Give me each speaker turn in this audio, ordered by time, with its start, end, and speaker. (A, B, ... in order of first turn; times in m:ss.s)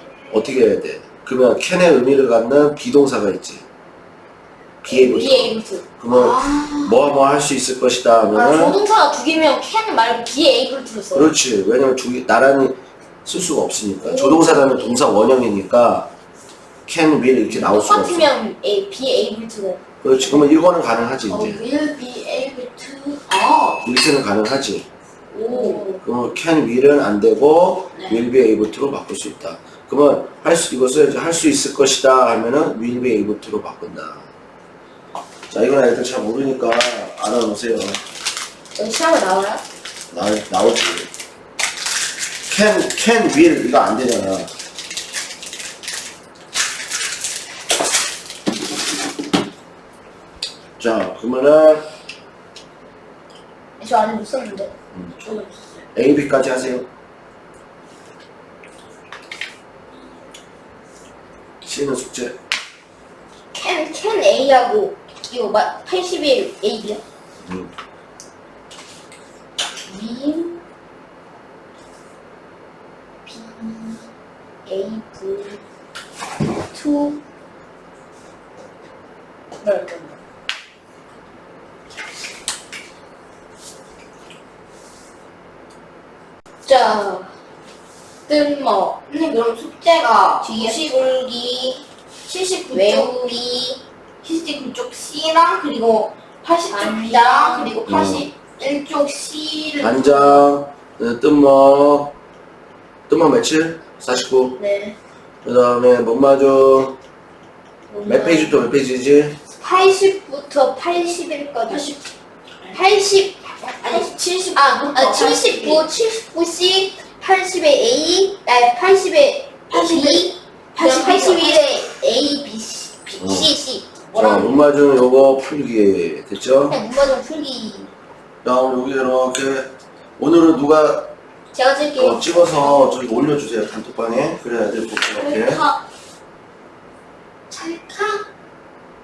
0:00.3-0:03.6 A
0:04.8-0:08.8 A
0:04.8-0:05.9 B
0:06.1-0:07.0 C
0:08.3-0:11.3 B
0:11.1-0:16.1 A
0:14.0-0:15.1 B
0:16.8-0:18.3 A
0:17.5-0:20.5 B
0:20.0-0:21.6 A
0:21.3-0:23.8 C
0:23.8-0:24.9 A
0:25.3-0:26.0 C
0:25.5-0:26.0 B
0:26.0-0:34.3 A
0:27.9-0:28.2 C
0:35.5-0:38.0 A
0:38.8-0:39.6 B
0:40.1-0:41.1 A
0:42.5-0:44.5 A
0:50.8-0:51.8 A
0:53.8-0:54.7 B
0:55.2-0:55.8 C
0:55.9-0:56.9 A
1:01.6-1:02.4 A
1:03.5-1:07.0 B
1:07.4-1:07.7 A
1:09.8-1:10.6 B
1:13.2-1:14.1 B
1:14.6-1:15.6 B
1:16.5-1:17.2 B
1:19.6-1:20.2 B
1:26.6-1:27.3 B
1:28.3-1:29.0 B
1:29.1-1:31.0 C
1:30.4-1:31.8 B
1:32.2-1:33.4 C
1:32.7-1:33.8 B
1:34.2-1:40.4 C
1:36.7-1:38.1 B
1:37.8-1:38.3 A
1:39.8-1:42.2 A
1:43.1-1:44.6 A
1:44.6-1:45.0 B
1:45.4-1:47.0 A
1:47.9-1:48.6 B
1:48.1-1:49.4 A
1:49.6-1:51.9 B
1:51.7-1:52.0 C
1:52.7-2:04.0 B
1:53.8-1:55.9 C
1:59.7-2:01.8 C
2:03.2-2:03.5 A
2:04.1-2:04.6 C
2:04.1-2:06.8 A
2:06.7-2:07.9 B
2:08.4-2:11.1 A
2:11.5-2:12.9 B
2:12.0-2:15.6 A
2:15.2-2:15.8 B
2:17.5-2:18.2 B